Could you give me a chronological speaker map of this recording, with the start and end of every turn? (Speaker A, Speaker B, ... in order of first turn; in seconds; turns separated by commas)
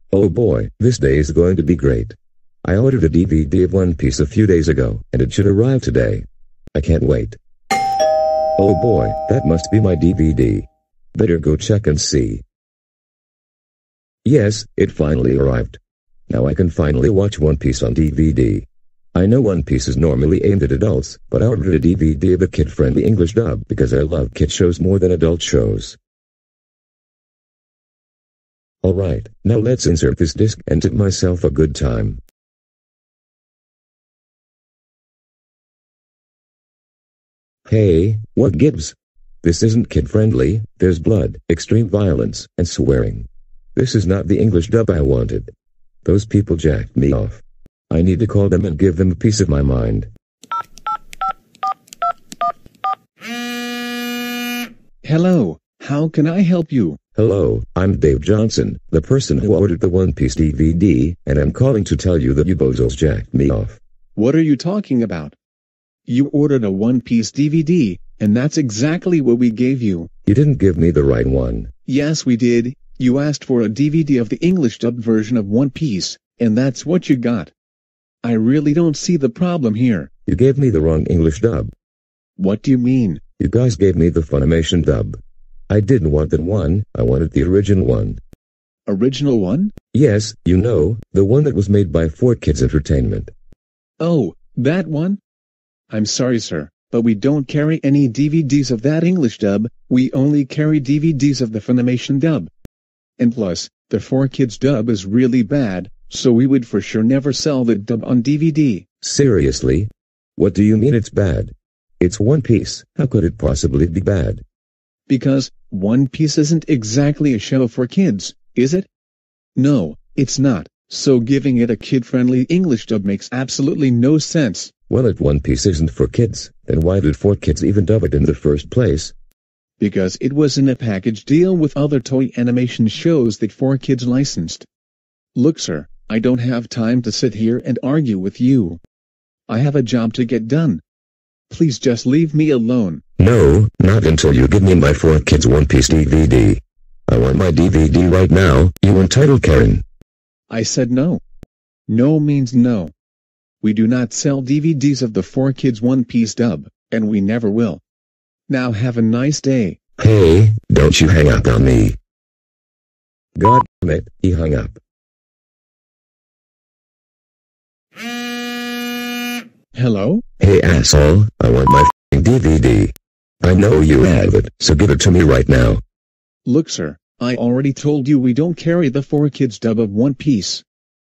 Speaker A: 0.1-7.4, Speaker A: 8.6-12.4, Speaker A: 14.2-15.8, Speaker A: 16.3-26.0, Speaker A: 28.8-32.2, Speaker A: 37.7-45.5, Speaker A: 46.0-50.1, Speaker B: 55.0-57.0, Speaker A: 57.1-63.8, Speaker B: 64.2-65.3, Speaker B: 66.1-70.1, Speaker A: 70.2-71.7, Speaker B: 71.8-77.5, Speaker B: 78.2-80.1, Speaker A: 80.2-81.7, Speaker B: 82.4-83.2, Speaker A: 83.4-85.2, Speaker A: 85.7-88.2, Speaker B: 88.8-89.7, Speaker A: 89.9-93.3, Speaker B: 94.0-95.2, Speaker B: 95.9-102.5, Speaker B: 103.2-108.8, Speaker A: 109.0-114.4, Speaker B: 115.1-118.9, Speaker B: 119.5-124.7, Speaker A: 124.9-129.1, Speaker B: 129.8-134.7, Speaker B: 135.3-138.8, Speaker B: 139.5-140.8, Speaker B: 141.5-143.0, Speaker A: 143.2-149.8, Speaker B: 150.5-151.2, Speaker B: 151.9-152.9, Speaker B: 153.6-157.8, Speaker B: 158.5-159.8, Speaker A: 160.0-162.0, Speaker A: 163.3-164.8, Speaker B: 169.7-170.2, Speaker A: 170.4-175.8, Speaker B: 176.4-180.6